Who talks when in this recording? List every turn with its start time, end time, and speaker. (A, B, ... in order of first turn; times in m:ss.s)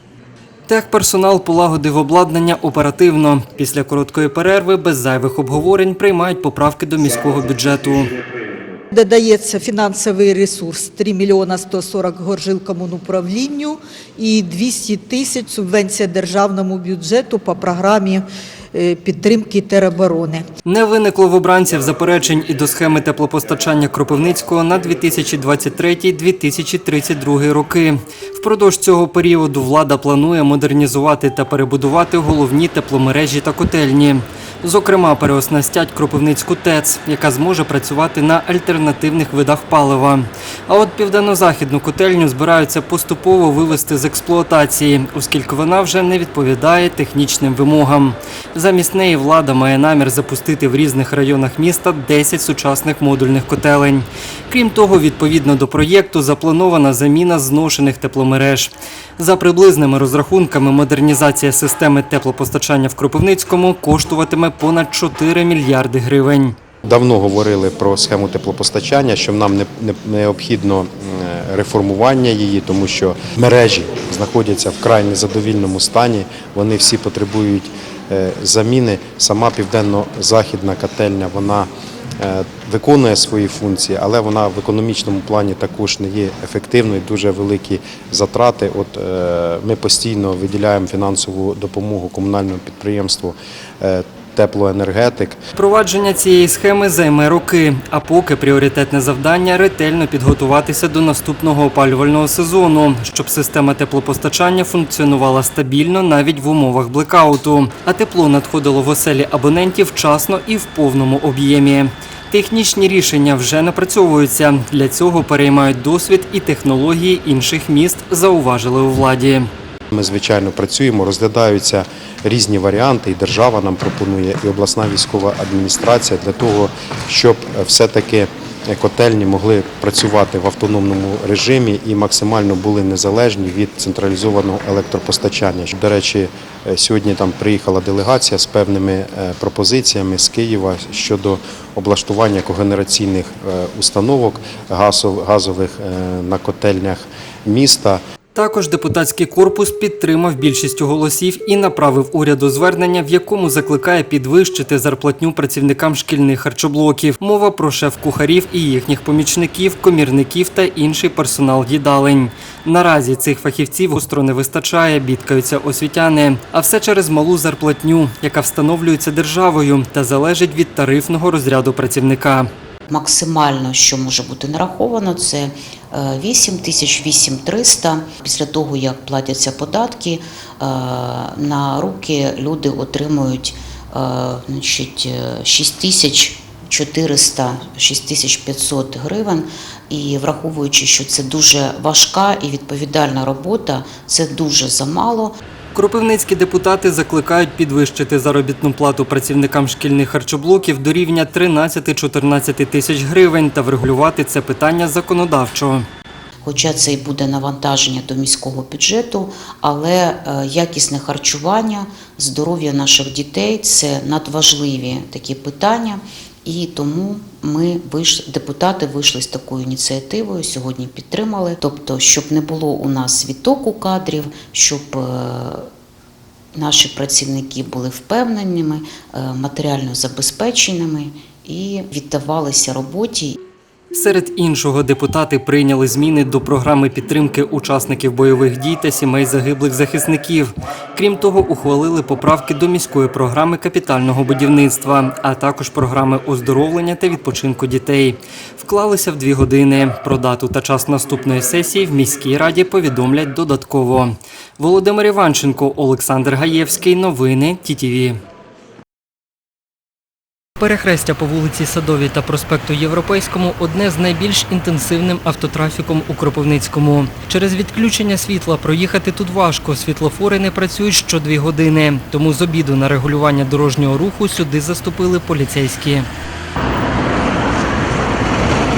0:00.7-0:08.1 A
0:08.9-0:20.4 B
0:20.7-1:06.6 A
1:06.8-1:35.4 C
1:35.6-1:59.5 A
1:59.9-2:28.0 C
2:28.4-2:52.5 A
2:52.9-3:15.4 D
3:15.7-3:25.8 A
3:26.4-3:45.7 D
3:46.5-3:53.4 D
3:53.9-4:18.2 A
4:20.6-4:36.1 A